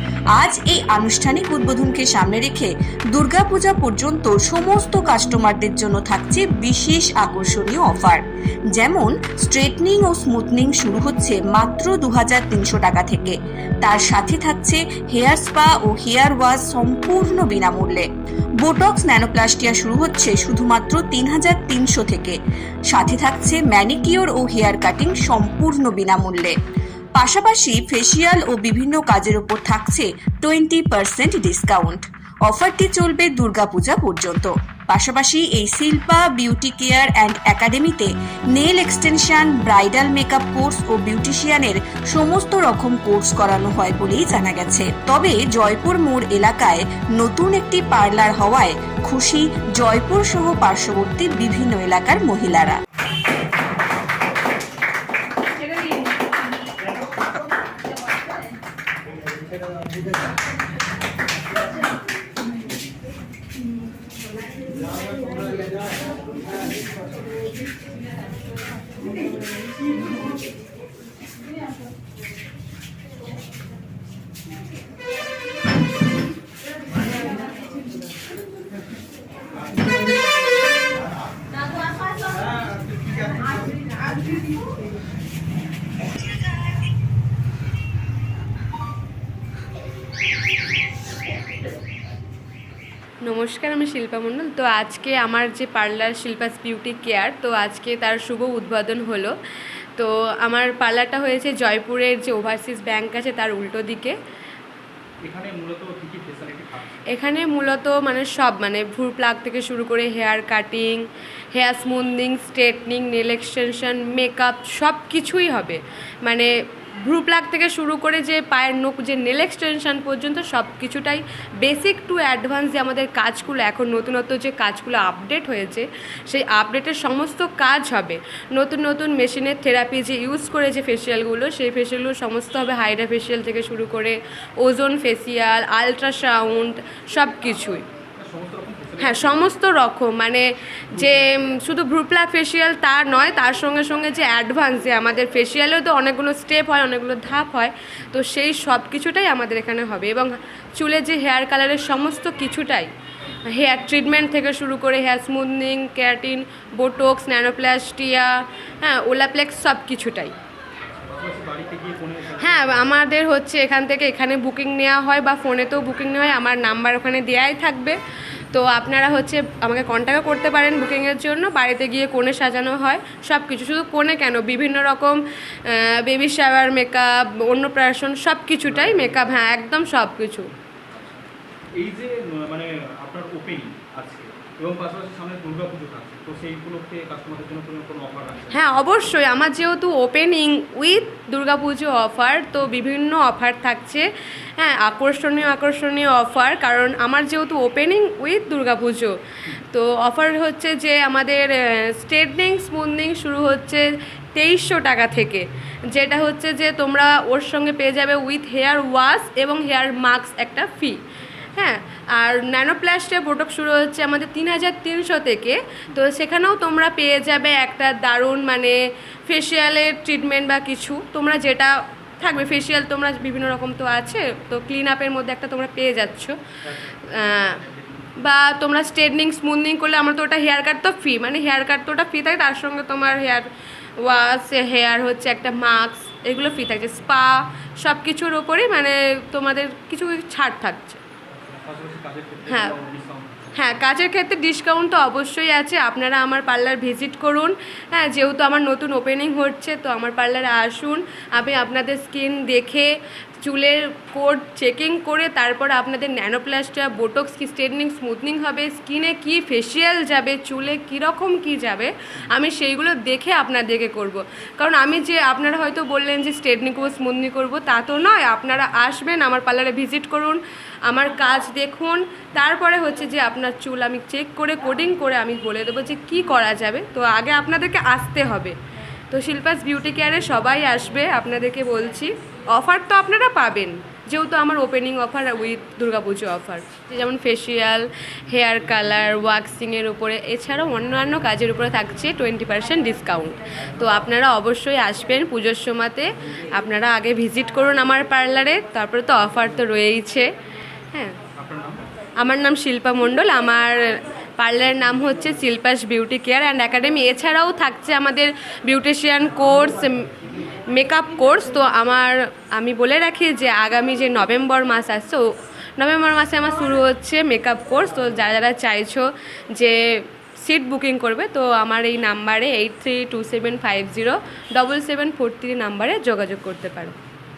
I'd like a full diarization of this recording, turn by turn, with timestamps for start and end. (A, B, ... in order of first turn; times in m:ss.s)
0:00.3-0:18.1 A
0:18.6-0:22.4 A
0:22.9-0:26.6 A
0:27.2-0:52.8 A
1:33.2-1:39.3 B
1:40.0-1:44.2 B
1:45.2-1:47.0 C
1:47.1-1:56.5 B
1:57.0-2:17.8 B
2:18.2-2:19.6 C
2:19.0-2:32.9 B
2:20.9-2:21.2 C
2:33.5-2:40.3 B
2:41.0-2:43.0 C
2:42.4-2:48.0 B
2:48.5-3:00.5 B
2:58.6-2:59.4 C
3:00.9-3:01.2 C
3:01.8-3:08.6 C
3:08.5-3:19.1 B
3:19.7-3:31.0 B
3:31.5-3:38.8 B
3:39.3-3:46.4 B
3:46.6-3:48.1 C
3:47.1-3:47.6 B
3:48.2-3:53.5 B
3:54.0-4:01.0 B
4:01.5-4:03.8 C
4:02.5-4:02.7 B
4:03.5-4:12.9 B
4:13.4-4:38.6 B
4:39.1-5:00.2 B
5:01.4-5:01.8 C
5:02.2-5:10.1 B
5:10.7-5:15.2 B
5:15.8-5:26.9 B